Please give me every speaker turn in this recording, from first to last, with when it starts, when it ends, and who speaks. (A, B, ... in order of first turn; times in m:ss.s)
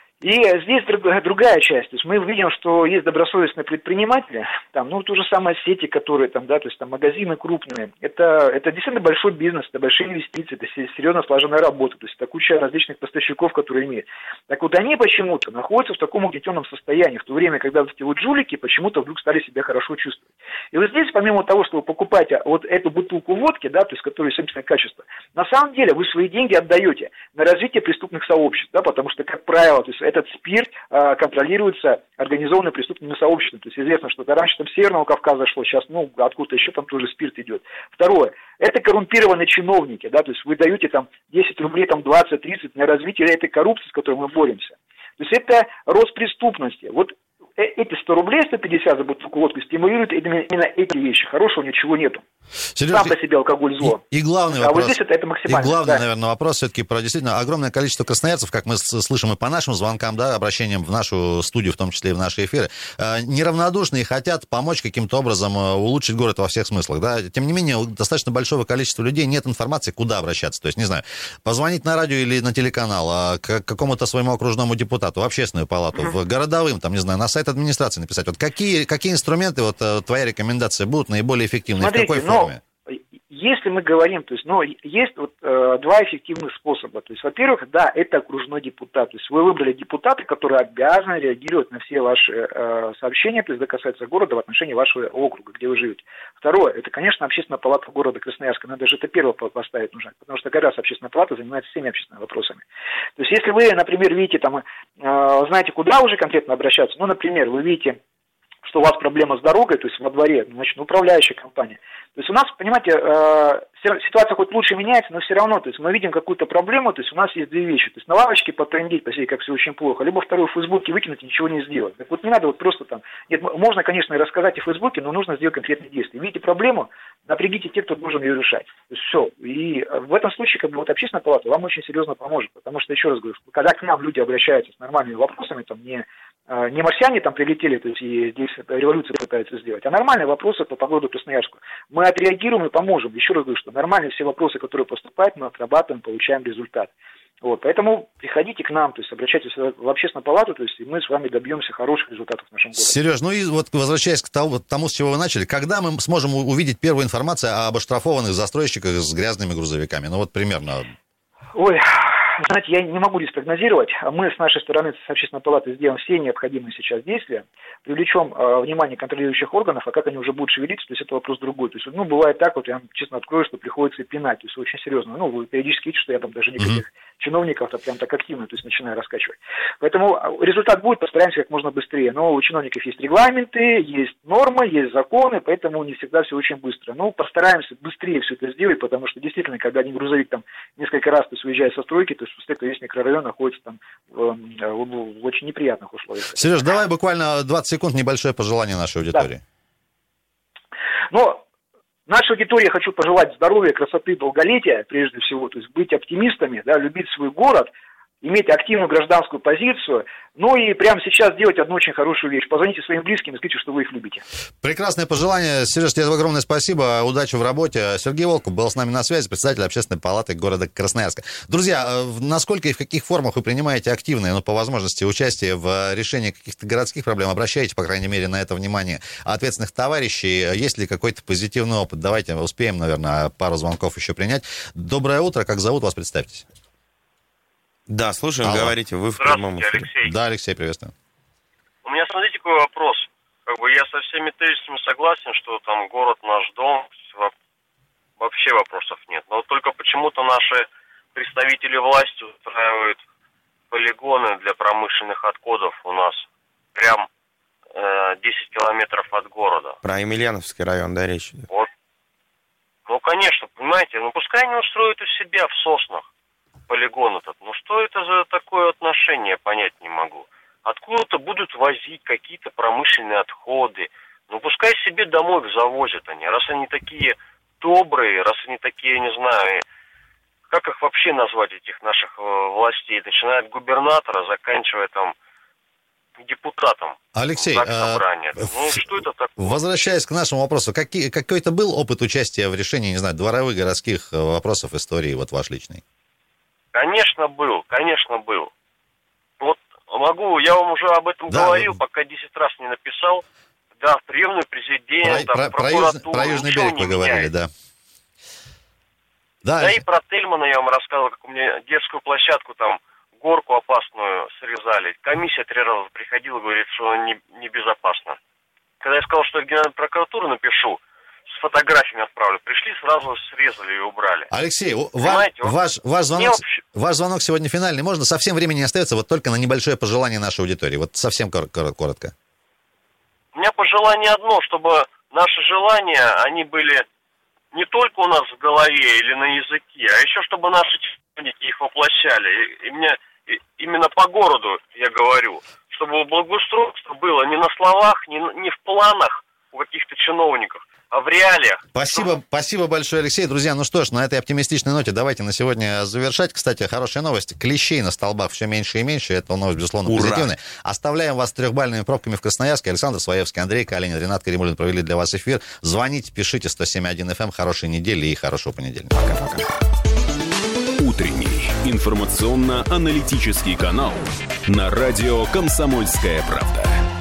0:00.2-0:52.2 A
0:52.8-0:53.2 B
0:52.9-0:56.0 A
0:53.8-1:22.6 B
1:21.8-1:42.6 A
1:43.2-1:48.0 A
1:48.6-2:26.9 A
2:27.4-2:33.0 A
2:32.8-2:40.9 B
2:41.5-3:16.5 A
3:16.3-3:19.4 B
3:21.1-3:21.4 A
3:22.1-3:27.7 A
3:28.2-3:34.2 A
3:34.6-3:56.4 B
3:57.9-3:59.9 C
3:58.4-3:58.8 B
3:59.2-4:00.1 D
4:00.0-4:00.9 B
4:01.8-4:07.3 D
4:08.2-4:13.0 D
4:13.7-4:17.1 D
4:17.8-4:19.8 D
4:19.8-4:21.5 C
4:22.9-4:26.1 D
4:26.7-4:39.6 D
4:40.5-4:45.1 D
4:46.2-4:49.6 D
4:47.1-4:48.8 B
4:49.4-4:55.8 B
4:56.7-4:58.5 D
4:59.4-5:03.2 D
5:01.3-5:01.8 B
5:03.8-5:07.3 D
5:05.0-5:07.5 B
5:09.4-5:09.8 B
5:09.6-5:18.2 D
5:18.8-5:24.3 D
5:24.3-5:32.1 B
5:25.0-5:25.5 D
5:26.1-5:26.4 D
5:33.3-5:36.8 D
5:37.5-5:51.9 D
5:51.8-6:08.9 B
5:59.9-6:00.3 C
6:10.8-6:16.7 E